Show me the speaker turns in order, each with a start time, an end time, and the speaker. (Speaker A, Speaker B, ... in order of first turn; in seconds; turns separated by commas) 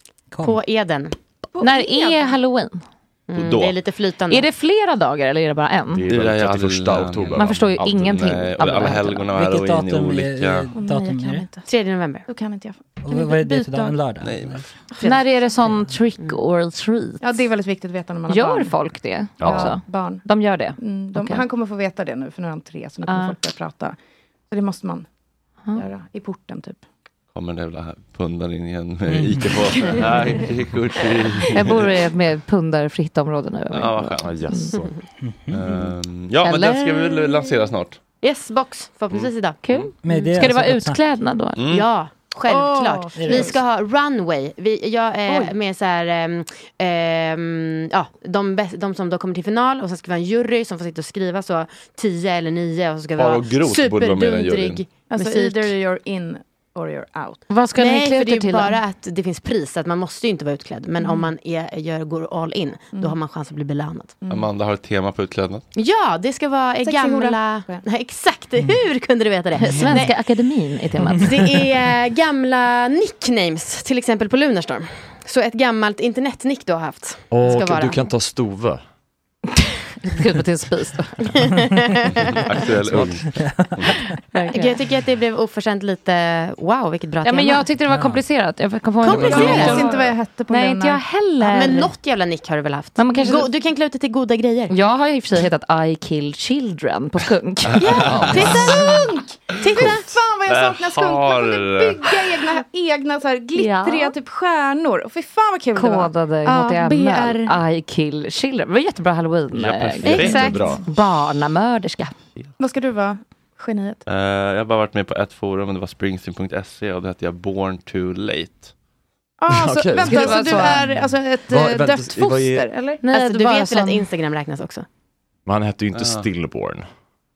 Speaker A: 0.3-0.6, Speaker B: 0.4-1.1, Speaker C: 1.5-2.4, Speaker D: 1.6-2.8, Speaker B: 3.3-4.5, Speaker E: 3.4-3.8, Speaker D: 4.3-6.0, Speaker F: 5.9-9.1, Speaker E: 6.1-10.7, Speaker D: 7.3-9.3, Speaker A: 9.3-11.5, Speaker C: 10.7-11.7, Speaker B: 11.7-12.3, Speaker C: 12.3-14.0, Speaker A: 13.0-14.6, Speaker E: 14.2-14.7, Speaker C: 14.9-15.4, Speaker D: 15.0-17.4, Speaker A: 15.7-16.0, Speaker C: 17.2-24.0, Speaker D: 18.3-21.4, Speaker F: 19.4-19.8, Speaker D: 23.1-23.4, Speaker C: 24.5-25.1, Speaker C: 25.7-26.8, Speaker E: 27.3-31.9, Speaker F: 29.1-30.1, Speaker D: 31.5-34.8, Speaker E: 33.7-34.3, Speaker F: 34.2-35.0, Speaker A: 35.2-35.9, Speaker E: 35.5-38.0, Speaker D: 36.4-37.5, Speaker B: 38.2-40.4, Speaker E: 39.1-39.9, Speaker D: 39.6-41.6, Speaker A: 40.0-41.2, Speaker E: 41.6-41.9, Speaker B: 41.7-55.7, Speaker C: 42.5-43.6, Speaker A: 43.1-43.5, Speaker C: 45.3-45.5, Speaker E: 53.2-54.8, Speaker C: 55.1-57.4, Speaker B: 57.5-64.1, Speaker D: 57.6-58.8, Speaker C: 61.0-61.3, Speaker C: 64.2-64.5, Speaker E: 64.3-65.7, Speaker B: 65.8-70.2, Speaker C: 66.8-67.8, Speaker A: 69.6-70.1, Speaker D: 69.7-71.4, Speaker A: 71.0-71.5, Speaker B: 71.2-78.0, Speaker F: 77.3-78.8, Speaker D: 80.0-81.5, Speaker B: 81.3-82.4, Speaker E: 82.3-84.0, Speaker F: 82.9-83.2, Speaker A: 82.9-84.1, Speaker D: 84.3-84.8, Speaker B: 84.5-87.7, Speaker D: 87.2-91.9, Speaker A: 87.8-88.3, Speaker B: 89.0-89.9, Speaker F: 89.1-89.7, Speaker C: 89.2-91.0, Speaker B: 91.4-94.7, Speaker D: 93.0-93.5, Speaker C: 93.1-93.5, Speaker D: 94.7-98.9, Speaker B: 97.8-99.0, Speaker E: 97.8-99.0, Speaker C: 97.9-107.6, Speaker E: 99.7-102.5, Speaker F: 99.8-100.0, Speaker D: 103.5-104.2, Speaker D: 105.8-112.1, Speaker E: 109.5-110.6, Speaker F: 109.6-110.8, Speaker B: 110.1-110.7, Speaker C: 112.6-114.0, Speaker E: 114.1-118.7, Speaker C: 119.4-123.0, Speaker F: 119.5-122.7, Speaker D: 120.0-120.9, Speaker D: 123.0-124.1, Speaker B: 123.1-124.9, Speaker F: 125.5-126.9, Speaker E: 125.9-126.3